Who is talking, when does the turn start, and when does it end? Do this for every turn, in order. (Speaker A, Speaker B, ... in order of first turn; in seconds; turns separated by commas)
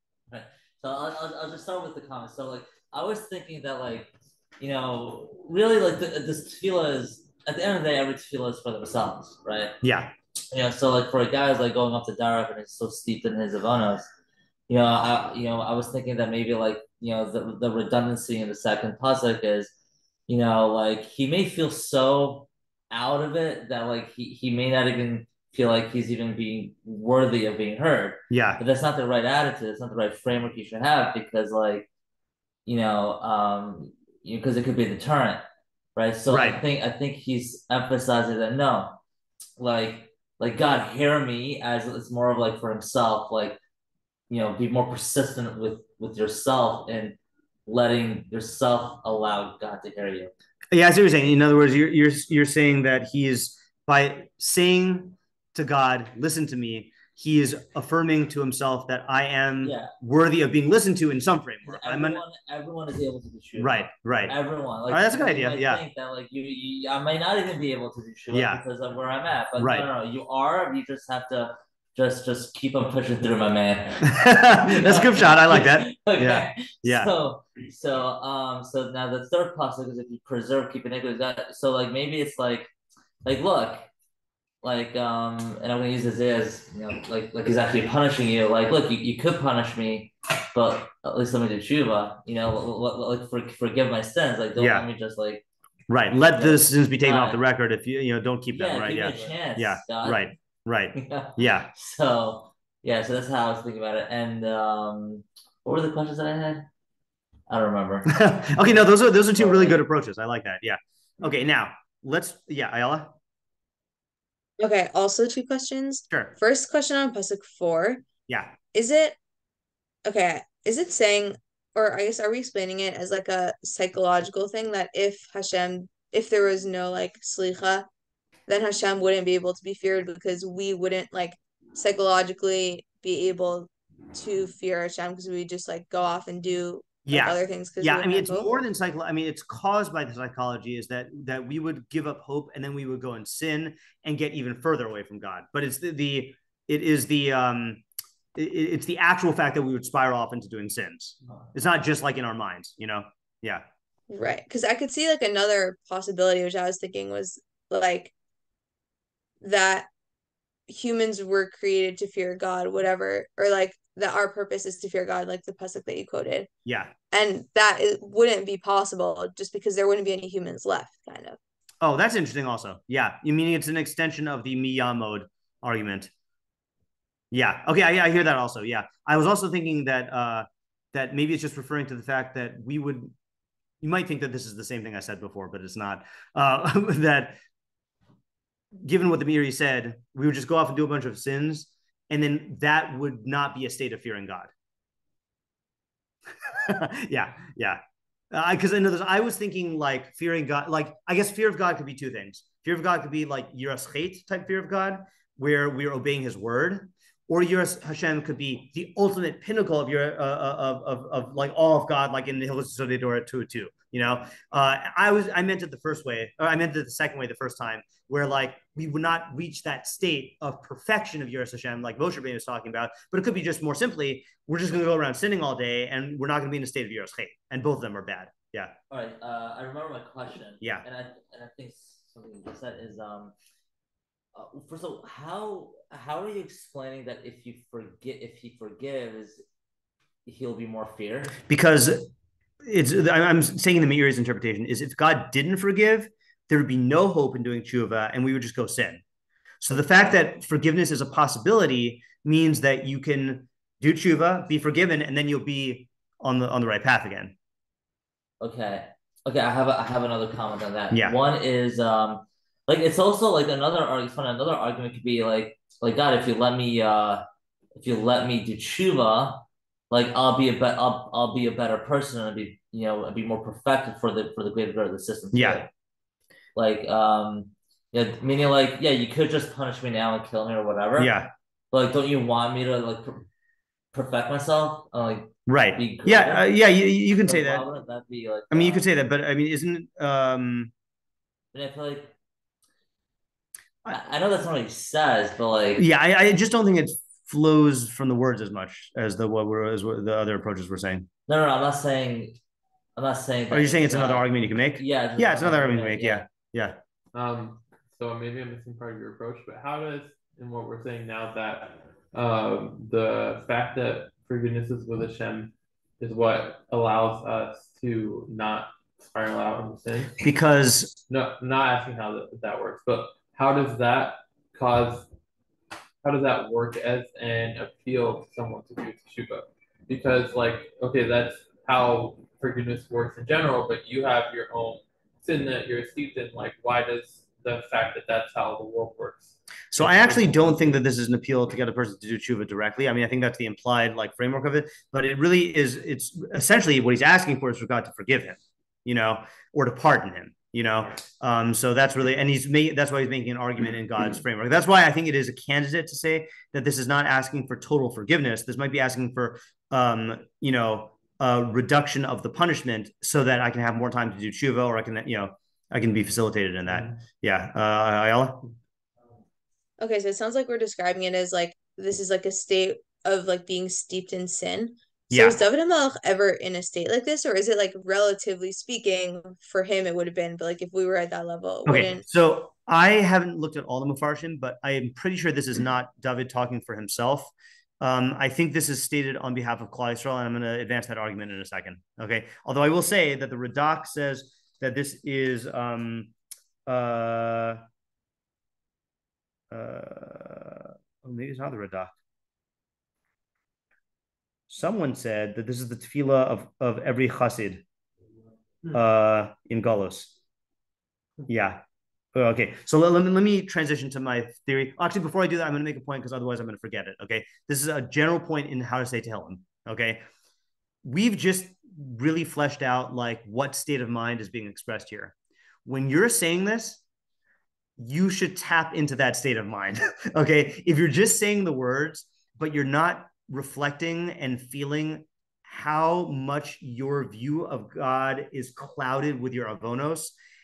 Speaker A: 0.3-9.8, Speaker B: 9.8-10.1, Speaker A: 10.5-14.1, Speaker A: 14.7-19.7, Speaker A: 20.3-31.9, Speaker B: 28.3-28.6, Speaker A: 32.7-35.4, Speaker A: 36.0-39.0, Speaker B: 36.3-36.6, Speaker A: 39.6-43.6, Speaker A: 44.3-50.3, Speaker B: 50.7-62.2, Speaker A: 59.6-59.9, Speaker A: 61.6-82.7, Speaker B: 63.6-64.3, Speaker B: 64.9-65.8, Speaker B: 68.3-68.6, Speaker B: 69.6-69.9, Speaker B: 74.0-77.1, Speaker A: 83.2-83.9, Speaker A: 84.6-95.4, Speaker B: 94.6-94.9, Speaker B: 95.9-101.7, Speaker A: 96.1-97.4, Speaker A: 98.5-100.3, Speaker A: 101.0-106.7, Speaker A: 107.5-108.1, Speaker B: 108.1-113.2, Speaker A: 109.4-109.8, Speaker C: 114.6-118.0, Speaker B: 118.3-118.5, Speaker C: 118.7-119.2, Speaker C: 120.0-127.9, Speaker C: 128.5-138.5, Speaker B: 137.1-147.8, Speaker B: 148.3-153.6, Speaker C: 154.1-158.1, Speaker C: 159.4-159.9, Speaker C: 160.7-166.5, Speaker B: 166.7-166.9, Speaker C: 167.1-171.4, Speaker B: 171.8-176.1, Speaker B: 177.3-183.1, Speaker B: 183.8-187.4, Speaker B: 188.8-194.5, Speaker B: 196.4-197.8, Speaker B: 198.3-228.7, Speaker A: 228.9-233.3, Speaker A: 234.3-239.4, Speaker A: 240.3-241.4, Speaker B: 241.5-242.1, Speaker B: 242.6-249.0, Speaker B: 249.6-257.4, Speaker A: 258.4-267.2, Speaker B: 260.9-261.2, Speaker A: 267.8-275.7, Speaker B: 275.3-275.6, Speaker A: 276.6-281.1, Speaker B: 281.0-281.3, Speaker A: 281.7-283.2, Speaker A: 283.9-286.5, Speaker B: 285.5-287.6, Speaker A: 287.2-288.8, Speaker B: 288.5-290.7, Speaker A: 291.5-292.1, Speaker A: 293.9-295.8, Speaker B: 295.8-301.1, Speaker A: 301.3-302.4, Speaker A: 302.9-306.2, Speaker B: 303.5-306.8, Speaker D: 307.1-320.2, Speaker B: 320.2-321.0, Speaker D: 321.1-325.1, Speaker D: 326.0-340.8, Speaker B: 339.7-368.4, Speaker C: 369.8-382.0, Speaker B: 375.1-375.4, Speaker B: 381.7-396.1, Speaker B: 396.7-397.6, Speaker B: 399.5-401.9, Speaker B: 404.5-407.6, Speaker B: 408.7-410.1, Speaker B: 411.3-411.6, Speaker B: 412.1-420.1, Speaker B: 420.8-425.1, Speaker B: 425.6-426.8, Speaker B: 427.8-440.1